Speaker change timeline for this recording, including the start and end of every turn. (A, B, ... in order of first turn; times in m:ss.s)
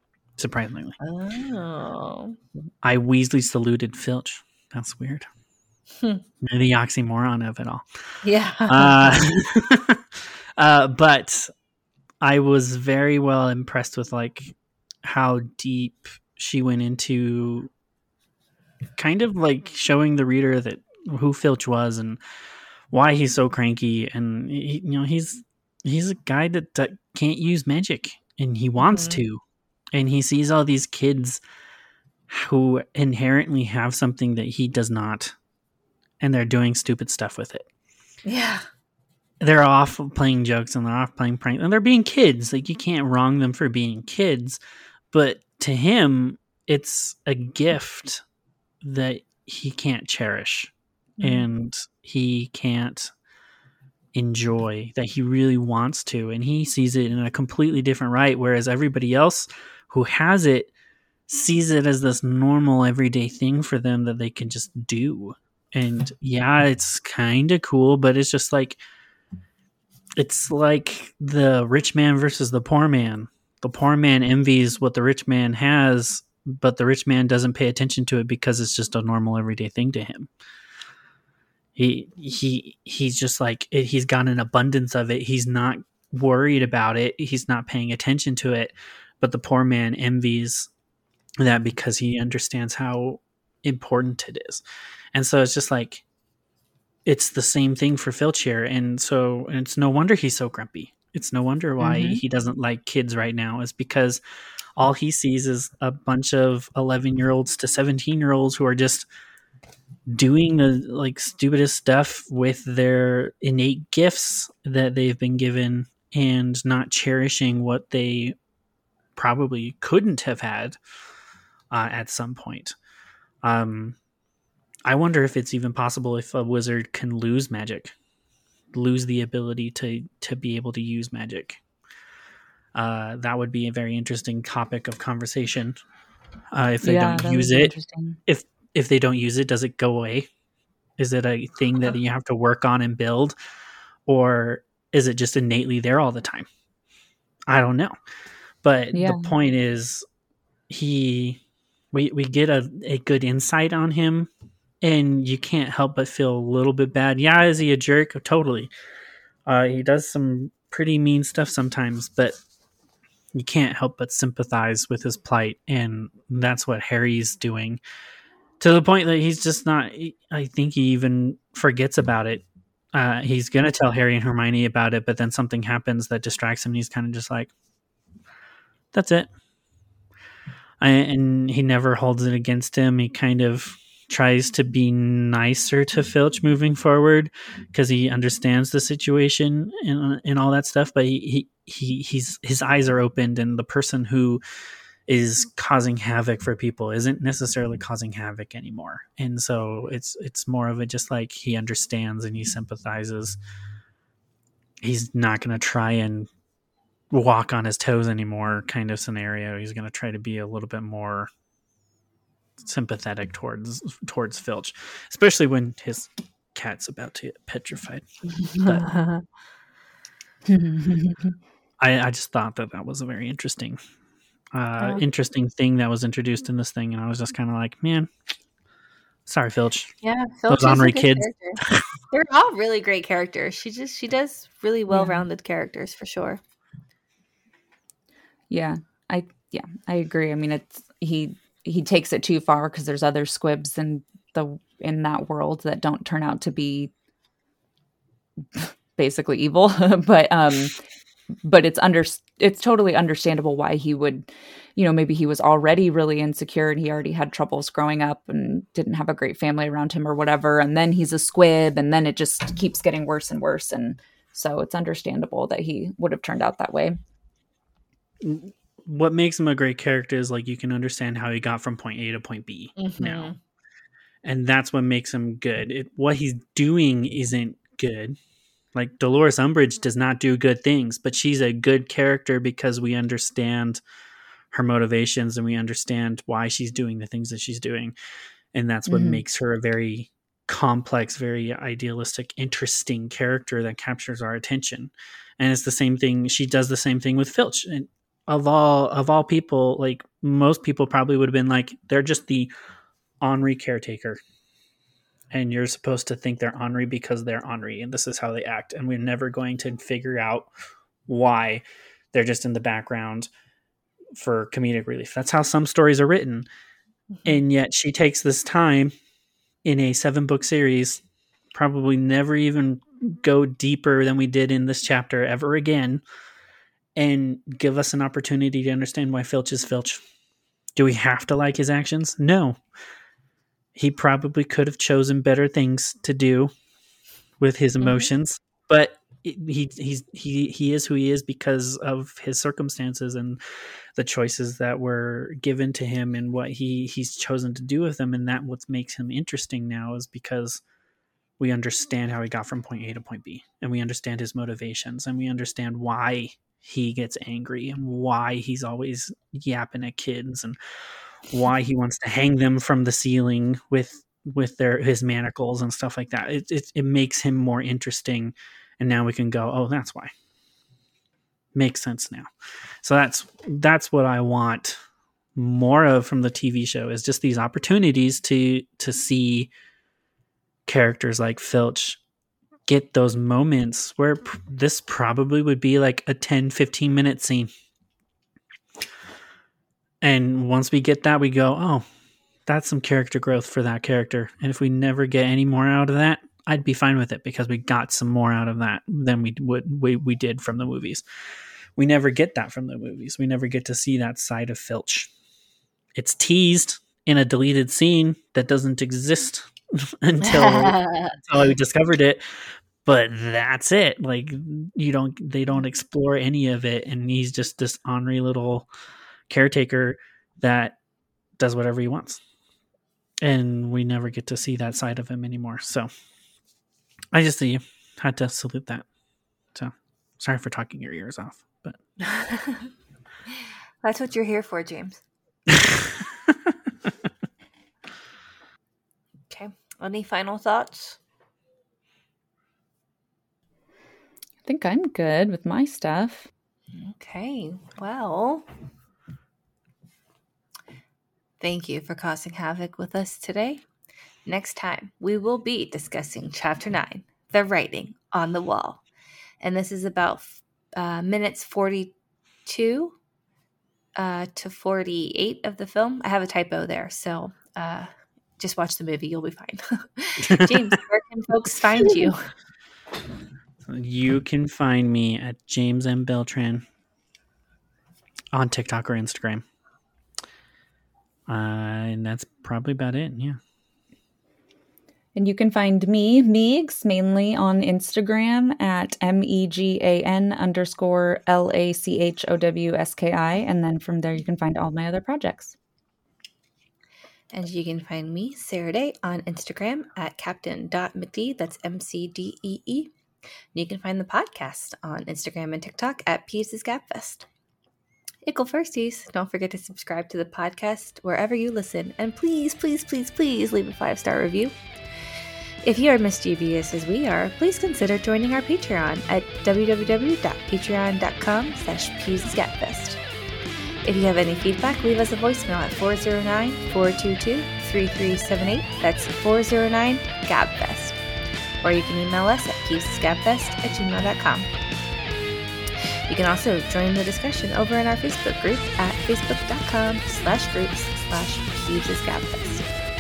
0:00.4-0:01.0 A
0:01.0-0:02.4 B
0:02.8-0:05.3 A
0:06.4-0:07.8 A
0:08.2-0:09.4 B
0:08.7-0:11.5 A
0:12.2-0:17.7 A
0:19.0-0:22.2 A
0:22.9-0:29.4 A
0:28.8-0:29.2 B
0:29.9-0:31.4 A
0:32.3-0:35.3 A
0:36.2-0:37.7 A
0:38.2-0:38.6 B
0:39.4-0:44.6 A
0:45.1-0:48.2 A
0:48.8-0:53.1 A
0:51.2-0:51.5 B
0:54.1-1:00.7 A
1:01.3-1:08.8 A
1:10.2-1:20.3 A
1:21.8-1:30.7 A
1:31.4-1:34.6 A
1:35.1-1:36.0 A
1:37.0-1:44.2 A
1:41.8-1:42.2 C
1:44.8-1:49.1 A
1:50.1-1:58.3 A
1:59.2-2:00.8 A
2:01.7-2:02.7 A
2:03.4-2:04.0 A
2:04.8-2:07.9 A
2:08.7-2:11.6 A
2:12.7-2:15.8 A
2:16.5-2:17.7 A
2:16.8-2:18.2 C
2:18.2-2:20.3 A
2:21.0-2:23.4 A
2:24.0-2:26.5 A
2:27.5-2:28.0 A
2:28.6-2:30.0 A
2:28.9-2:29.3 C
2:30.7-2:31.4 A
2:31.9-2:34.3 A
2:34.8-2:38.7 A
2:39.4-2:42.4 A
2:43.3-2:47.8 A
2:48.6-2:57.5 A
2:58.9-2:59.3 A
3:00.8-3:14.4 A
3:15.1-3:23.4 A
3:24.8-3:26.3 A
3:27.1-3:31.3 A
3:32.6-3:38.0 A
3:38.6-3:38.9 A
3:38.6-3:39.2 B
3:40.5-3:41.3 C
3:41.8-3:43.8 A
3:44.5-3:48.1 A
3:44.8-3:45.0 B
3:49.3-3:49.9 A
3:50.0-3:56.4 B
3:50.5-3:51.8 A
3:54.9-3:55.2 C
3:58.5-4:06.9 C
4:08.5-4:10.8 C
4:11.4-4:27.0 C
4:28.2-4:33.4 A
4:32.8-4:33.4 B
4:34.2-4:38.2 A
4:38.7-4:43.8 A
4:44.5-4:47.9 A
4:48.5-5:02.5 A
4:48.9-4:49.2 C
5:03.2-5:04.2 A
5:05.3-5:10.5 A
5:11.1-5:13.3 A
5:14.1-5:16.5 A
5:17.1-5:17.4 B
5:17.2-5:18.9 A
5:19.6-5:21.0 A
5:21.5-5:26.0 A
5:27.0-5:30.0 A
5:30.8-5:32.6 A
5:33.7-5:36.5 A
5:37.4-5:43.4 A
5:37.8-5:38.1 B
5:44.0-5:50.6 A
5:51.4-6:00.6 A
6:01.3-6:10.1 A
6:11.5-6:12.3 A
6:12.8-6:14.8 A
6:15.3-6:19.5 A
6:20.6-6:22.0 A
6:22.7-6:27.5 A
6:30.0-6:31.8 A
6:32.4-6:41.0 A
6:41.8-6:45.1 A
6:45.9-6:52.2 A
6:50.2-6:51.2 B
6:52.8-6:58.7 A
6:59.3-7:00.8 A
7:01.4-7:02.2 A
7:03.2-7:05.9 A
7:07.1-7:08.8 A
7:09.5-7:11.8 A
7:12.0-7:12.7 B
7:13.8-7:15.0 B
7:19.3-7:21.0 B
7:24.4-7:26.3 C
7:26.7-7:28.5 B
7:31.4-7:33.6 B
7:34.2-7:38.8 B
7:39.4-7:41.9 B
7:42.4-7:43.0 B
7:44.0-7:52.3 B
7:50.3-7:50.6 A
7:53.6-7:56.6 A
7:58.3-7:59.4 A
8:01.3-8:03.4 A
8:05.2-8:15.5 C
8:17.3-8:22.9 B
8:23.5-8:27.3 B
8:28.2-8:34.6 B
8:35.6-8:43.0 B
8:43.8-8:51.0 B
8:51.6-8:54.5 B
8:56.1-9:02.7 B